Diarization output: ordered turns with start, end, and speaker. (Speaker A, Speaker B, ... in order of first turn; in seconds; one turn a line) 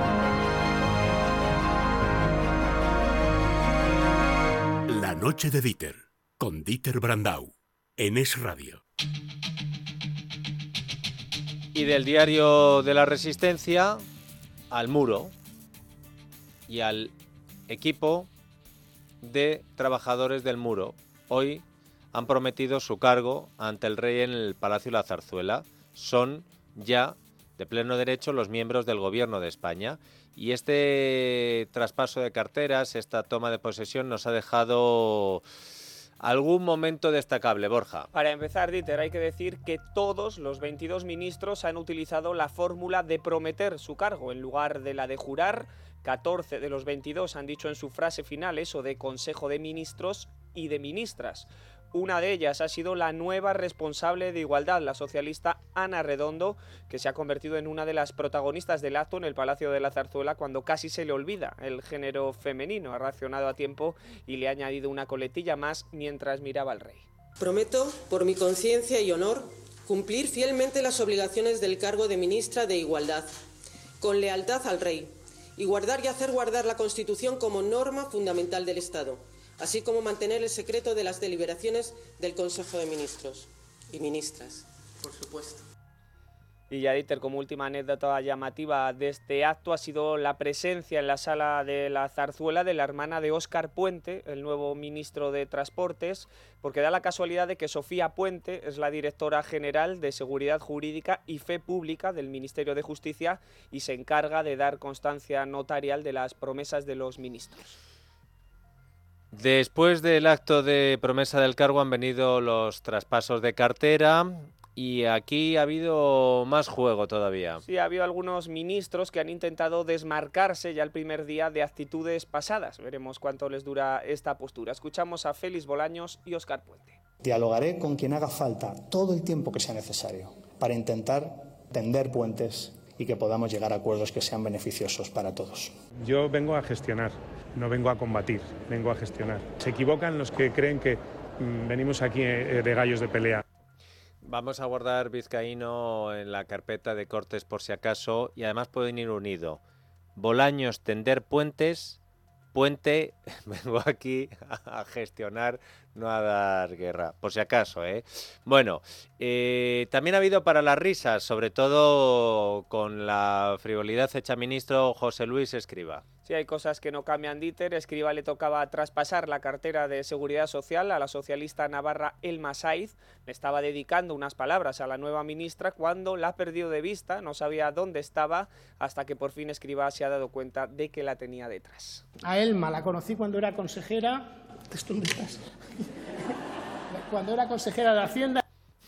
Speaker A: 4.9-8.8
Speaker B: 11.7-14.0
Speaker B: 14.7-15.3
Speaker B: 16.7-17.1
Speaker B: 17.7-18.3
Speaker B: 19.2-35.4
Speaker B: 36.2-38.1
Speaker C: 38.1-67.1
Speaker D: 67.4-73.3
Speaker D: 74.0-85.6
Speaker C: 86.7-107.7
Speaker B: 109.3-117.6
Speaker C: 117.6-127.0
Speaker E: 127.2-135.7
Speaker F: 136.0-143.4
Speaker B: 144.2-149.6
Speaker B: 150.2-152.0
Speaker B: 152.5-166.0
Speaker C: 166.2-182.0
Speaker G: 182.3-185.4
Speaker G: 187.0-188.4